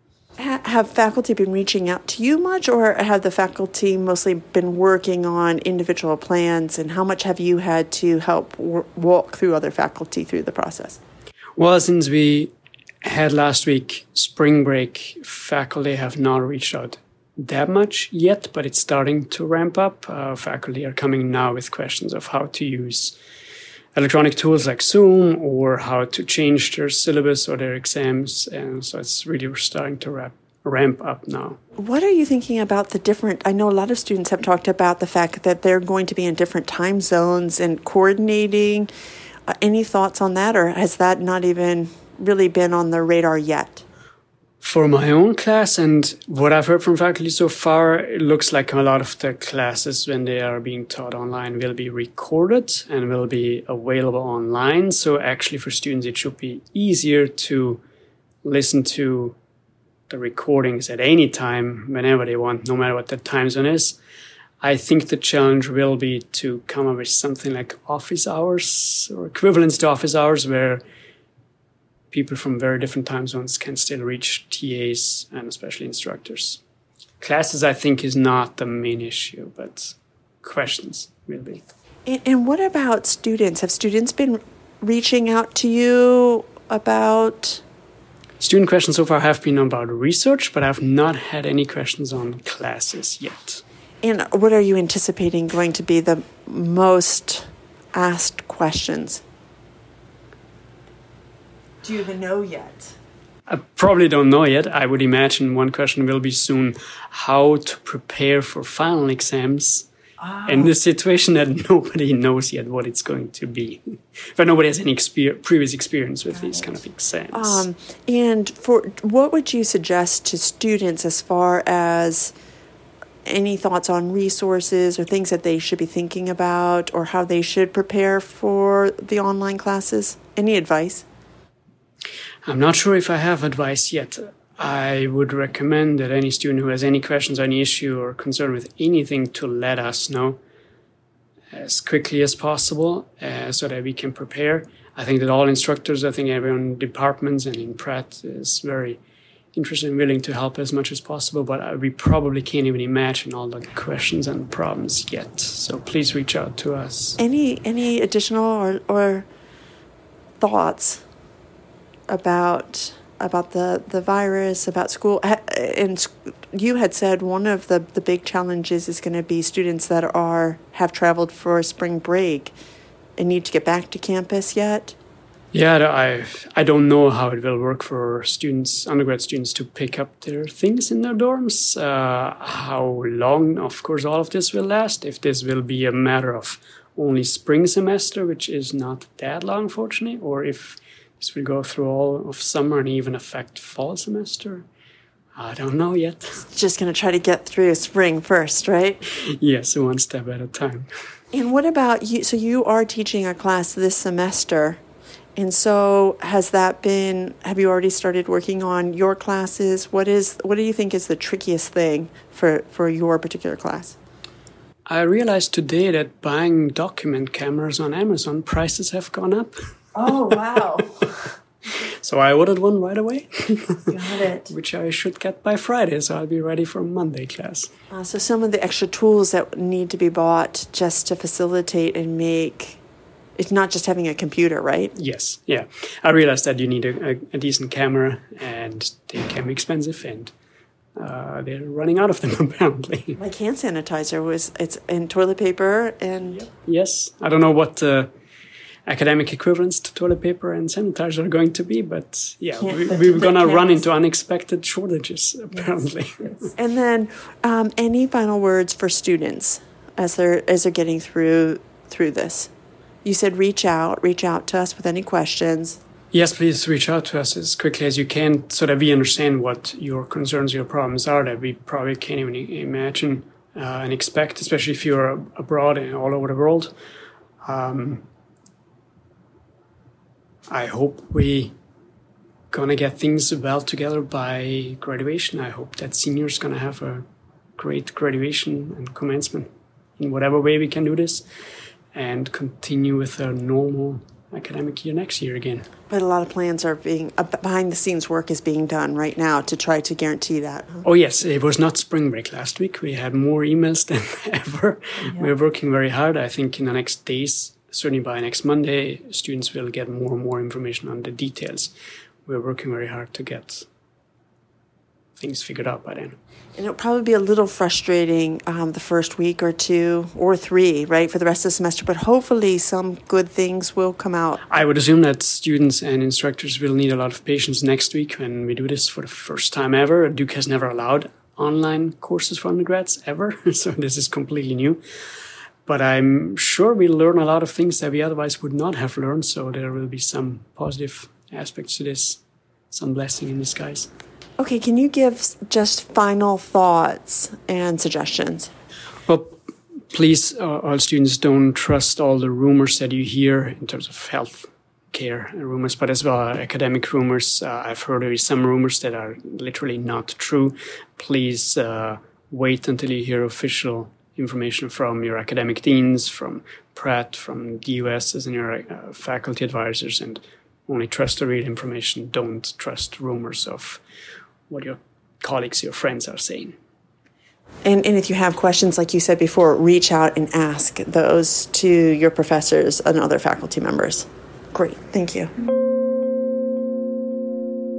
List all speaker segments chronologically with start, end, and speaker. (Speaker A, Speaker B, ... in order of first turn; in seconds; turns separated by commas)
Speaker A: 0.4-11.0, Speaker B: 11.6-23.2, Speaker B: 23.9-31.6, Speaker A: 31.8-38.9, Speaker A: 39.5-43.8, Speaker B: 44.6-57.8, Speaker B: 58.4-59.4, Speaker B: 60.1-64.0, Speaker B: 64.6-70.8, Speaker B: 72.1-76.6, Speaker B: 77.2-81.6, Speaker A: 82.1-87.6, Speaker B: 88.4-93.6, Speaker A: 94.0-99.2, Speaker A: 101.8-102.9, Speaker B: 103.5-109.9, Speaker A: 110.2-110.7, Speaker B: 110.5-117.7, Speaker A: 117.3-122.3, Speaker A: 123.2-131.1, Speaker B: 132.4-140.4, Speaker B: 141.5-149.0, Speaker B: 149.5-157.2, Speaker A: 157.2-159.3, Speaker A: 160.4-161.0, Speaker A: 162.1-172.6, Speaker A: 173.2-175.0, Speaker B: 175.5-194.7, Speaker B: 195.3-196.4, Speaker A: 196.5-199.0, Speaker B: 199.3-200.9, Speaker A: 201.3-204.8, Speaker A: 205.4-214.0, Speaker B: 214.9-219.6, Speaker A: 219.9-221.1, Speaker B: 222.0-223.9, Speaker A: 223.9-224.5, Speaker B: 224.5-227.7, Speaker A: 227.9-232.8, Speaker A: 233.4-234.9, Speaker B: 234.9-240.3, Speaker B: 241.0-243.2, Speaker A: 243.2-246.5, Speaker B: 246.3-248.1, Speaker B: 248.9-256.5, Speaker A: 252.6-253.8, Speaker A: 256.5-262.5, Speaker A: 263.0-265.8, Speaker B: 266.1-276.8, Speaker B: 277.4-278.1, Speaker B: 280.5-281.6, Speaker B: 282.5-291.3, Speaker B: 291.9-295.7, Speaker A: 295.9-300.9, Speaker B: 300.8-311.7, Speaker A: 305.1-305.3, Speaker B: 312.3-313.7, Speaker B: 315.2-316.2, Speaker A: 316.6-324.4, Speaker B: 324.5-334.8, Speaker B: 335.6-343.9, Speaker A: 344.4-348.5, Speaker B: 349.1-373.8, Speaker B: 374.5-376.6, Speaker A: 377.6-385.3